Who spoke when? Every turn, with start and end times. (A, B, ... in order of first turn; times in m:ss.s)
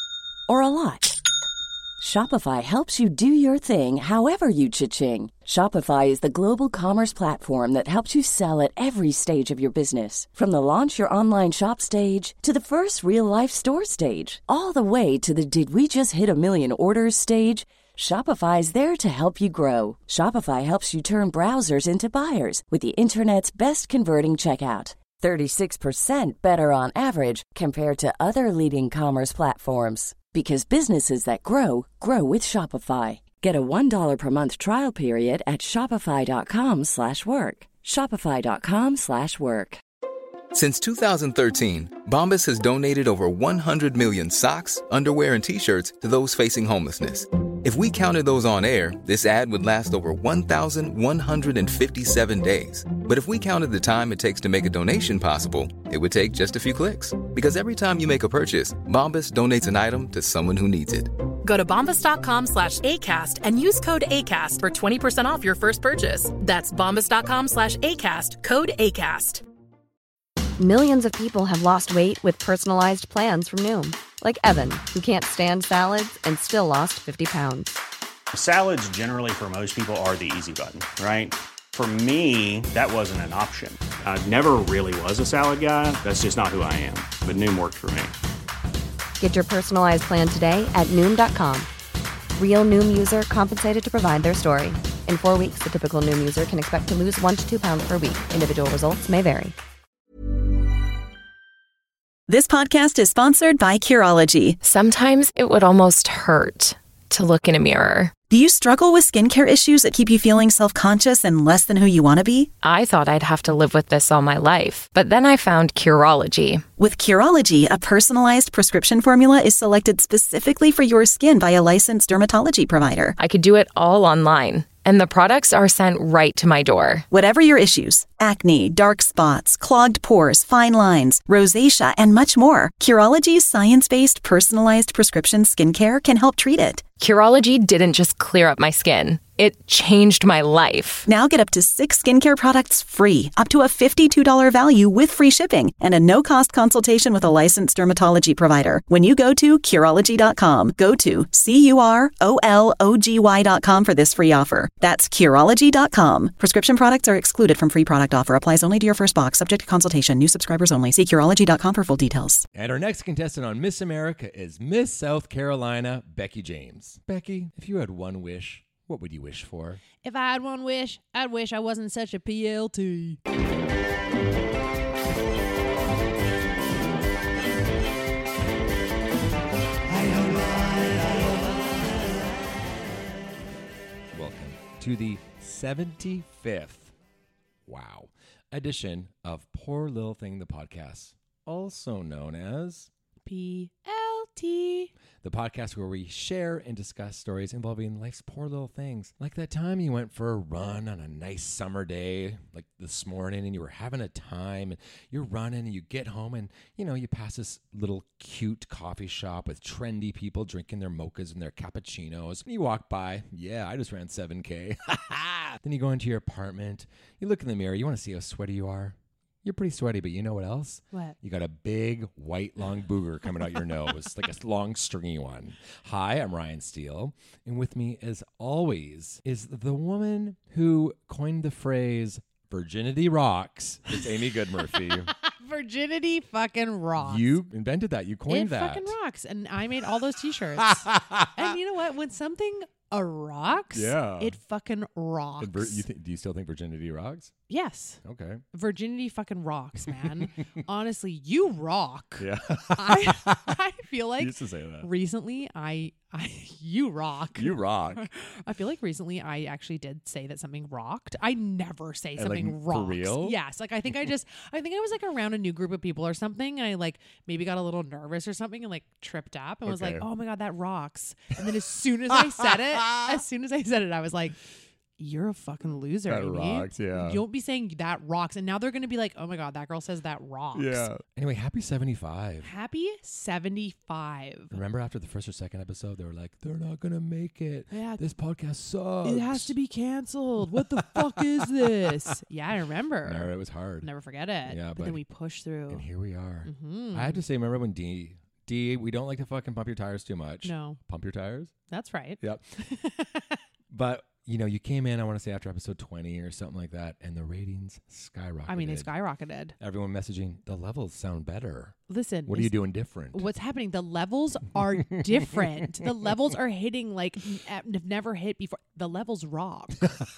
0:00.5-0:01.2 A
0:02.0-0:39.8 A
0:40.5-1:01.1 B
1:01.4-1:09.4 C
1:10.6-1:17.8 D
1:18.3-1:28.1 E
1:29.2-1:31.7 D
1:32.4-1:39.5 D
1:42.3-1:44.6 F
1:44.6-1:48.1 G
1:48.3-1:52.5 F
1:52.6-1:56.6 G
1:56.8-2:03.2 F
2:03.2-2:07.0 G
2:07.1-2:16.8 F
2:17.0-2:21.1 G
2:21.1-2:42.4 F
2:42.5-2:49.8 H
2:50.0-2:53.2 I
3:00.0-3:01.4 I
3:04.1-3:06.9 H
3:07.6-3:12.9 H
3:13.2-3:14.9 I
3:15.2-3:55.1 H
3:54.9-3:57.4 I
3:57.0-3:58.9 H
3:58.3-4:05.8 I
4:00.7-4:01.4 H
4:03.7-4:04.4 H
4:05.4-4:07.3 H
4:07.5-4:08.0 I
4:08.0-4:08.4 H
4:08.5-4:34.4 I
4:12.2-4:13.5 H
4:14.2-4:14.9 H
4:17.4-4:18.1 H
4:22.2-4:23.4 H
4:29.6-4:30.0 H
4:32.1-4:33.2 H
4:35.0-4:40.9 I
4:36.0-4:37.2 H
4:40.5-4:42.5 H
4:42.4-4:44.6 I
4:44.5-4:49.5 H
4:47.7-4:48.0 I
4:49.0-4:55.8 I
4:50.4-4:52.0 H
4:53.0-4:53.9 H
4:54.4-4:55.0 H
4:55.7-5:01.5 H
4:56.4-4:57.2 I
5:00.4-5:00.8 I
5:01.7-5:03.4 I
5:02.2-5:02.5 H
5:03.7-5:08.9 H
5:08.5-5:09.5 I
5:09.6-5:13.2 H
5:11.9-5:19.9 I